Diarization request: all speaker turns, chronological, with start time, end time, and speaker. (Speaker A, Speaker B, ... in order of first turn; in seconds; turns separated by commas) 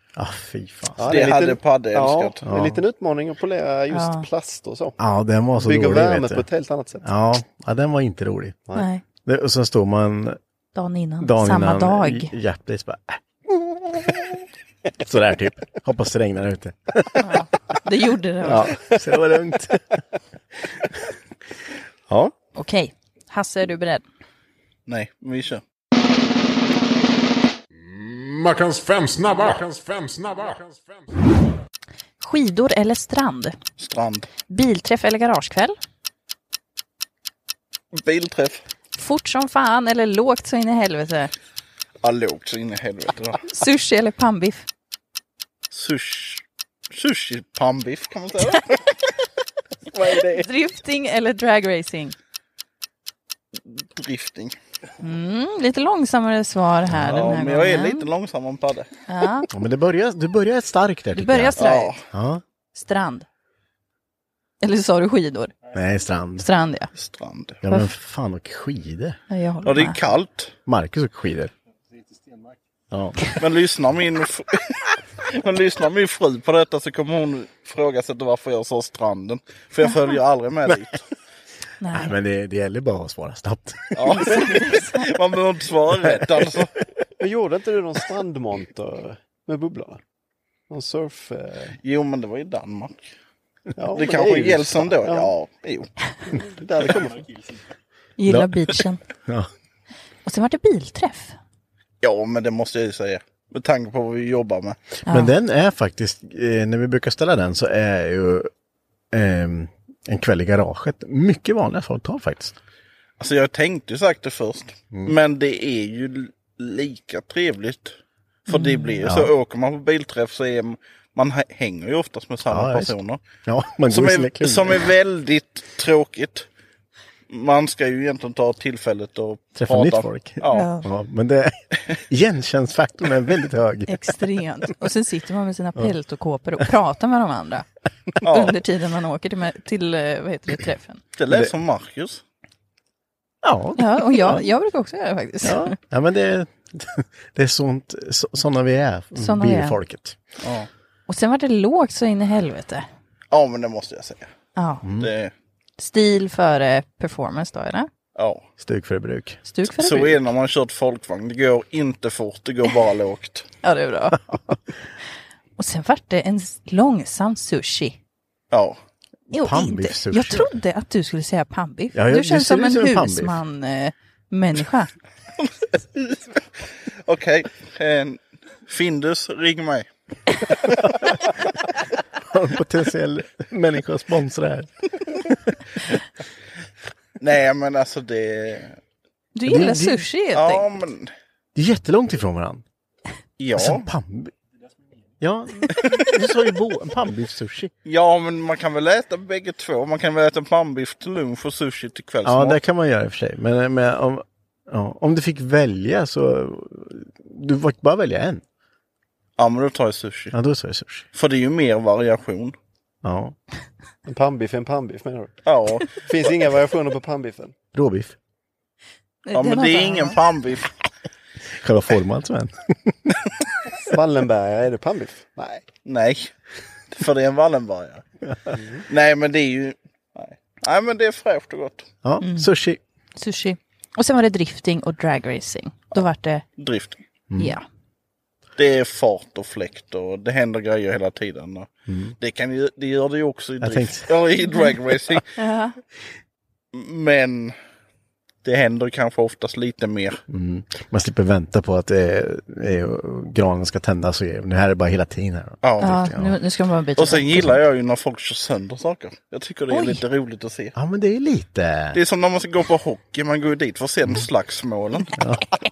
Speaker A: 0.2-1.1, Speaker B: 1.0-5.0, Speaker C: 1.1-2.4, Speaker A: 2.5-2.8, Speaker D: 3.9-4.3, Speaker A: 5.0-6.5, Speaker B: 5.6-7.0, Speaker A: 7.0-8.6, Speaker D: 8.7-9.0, Speaker A: 9.2-10.4, Speaker D: 10.8-12.4, Speaker A: 11.2-14.4, Speaker A: 15.0-17.3, Speaker D: 17.2-18.8, Speaker A: 18.4-20.0, Speaker A: 20.7-21.1, Speaker A: 22.1-22.3, Speaker D: 22.6-24.0, Speaker C: 24.9-25.6, Speaker E: 27.7-31.1, Speaker D: 32.2-33.6, Speaker C: 33.8-34.3, Speaker D: 34.5-35.8, Speaker C: 37.9-38.6, Speaker D: 39.0-41.3, Speaker C: 42.0-43.5, Speaker D: 43.5-44.6, Speaker C: 45.7-48.9, Speaker D: 50.2-52.1, Speaker C: 53.5-54.6, Speaker D: 55.0-58.1, Speaker A: 56.9-57.2, Speaker C: 57.0-58.9, Speaker D: 59.1-59.5, Speaker A: 59.5-61.6, Speaker D: 61.1-62.0, Speaker C: 61.6-62.0, Speaker A: 62.1-62.4, Speaker D: 62.7-63.3, Speaker D: 64.6-65.5, Speaker A: 65.7-66.5, Speaker D: 66.4-66.9, Speaker C: 67.0-67.6, Speaker A: 67.6-69.2, Speaker D: 69.3-70.0, Speaker C: 69.6-70.5, Speaker A: 70.7-71.5, Speaker A: 72.9-73.2, Speaker C: 73.4-81.0, Speaker D: 79.8-80.2, Speaker D: 81.8-82.1, Speaker A: 81.9-84.5, Speaker C: 84.0-86.7, Speaker D: 84.2-85.1, Speaker B: 87.2-90.0, Speaker B: 90.7-91.8, Speaker C: 91.8-93.1, Speaker B: 93.8-95.3, Speaker C: 94.0-95.9, Speaker B: 96.4-97.2, Speaker D: 98.2-99.0, Speaker A: 98.3-98.5, Speaker D: 100.2-101.4, Speaker C: 102.0-104.8, Speaker D: 105.1-105.3, Speaker A: 105.1-108.5, Speaker A: 109.1-112.5, Speaker C: 113.2-118.0, Speaker C: 118.5-123.2, Speaker D: 118.5-119.1, Speaker A: 119.0-119.3, Speaker A: 122.5-124.8, Speaker C: 123.9-126.5, Speaker C: 127.3-130.7, Speaker A: 129.6-134.2, Speaker D: 130.5-130.9, Speaker D: 133.9-137.7, Speaker C: 138.2-138.6, Speaker D: 138.2-141.0, Speaker C: 141.2-142.2, Speaker A: 143.4-144.4, Speaker D: 143.8-145.8, Speaker A: 145.4-150.2, Speaker D: 149.1-149.8, Speaker C: 150.4-150.7, Speaker D: 151.1-152.9, Speaker C: 153.3-154.3, Speaker D: 154.6-154.9, Speaker A: 154.8-155.1, Speaker C: 155.0-155.3, Speaker D: 155.8-157.9, Speaker C: 158.2-158.4, Speaker A: 158.6-159.4, Speaker D: 159.5-160.2, Speaker C: 159.8-163.5, Speaker D: 163.6-164.2, Speaker D: 165.6-168.0, Speaker C: 168.5-168.8, Speaker D: 169.3-174.9, Speaker A: 169.3-170.6, Speaker A: 171.9-173.4, Speaker C: 175.4-176.4, Speaker C: 177.1-179.9, Speaker A: 182.3-185.5, Speaker C: 187.2-188.8, Speaker D: 189.3-190.7, Speaker A: 189.5-190.1, Speaker C: 190.3-191.1, Speaker A: 191.6-192.6, Speaker C: 193.4-193.9, Speaker A: 193.6-194.3, Speaker A: 195.2-197.7, Speaker C: 197.9-202.6, Speaker A: 202.2-208.4, Speaker C: 209.4-210.3, Speaker A: 210.3-211.1, Speaker C: 211.1-212.6, Speaker A: 213.0-213.3, Speaker B: 214.1-215.4, Speaker C: 215.5-216.0, Speaker B: 216.0-217.5, Speaker A: 217.7-218.2, Speaker D: 219.2-220.2, Speaker C: 219.3-220.7, Speaker A: 221.6-223.0, Speaker B: 223.9-225.6, Speaker C: 225.9-226.3, Speaker C: 226.9-228.0, Speaker B: 228.5-228.8, Speaker C: 228.9-231.9, Speaker A: 232.0-232.8, Speaker D: 232.2-232.5, Speaker D: 233.2-236.4, Speaker C: 236.6-237.0, Speaker D: 237.4-237.7, Speaker C: 238.6-241.7, Speaker A: 241.9-242.2, Speaker C: 242.2-245.3, Speaker A: 243.6-244.2, Speaker D: 245.4-245.8, Speaker C: 246.7-247.6, Speaker C: 248.4-250.2, Speaker A: 250.3-256.4, Speaker C: 255.6-256.0, Speaker D: 255.8-257.5, Speaker C: 257.0-260.7, Speaker D: 259.7-260.0, Speaker A: 260.8-262.0, Speaker C: 261.9-265.1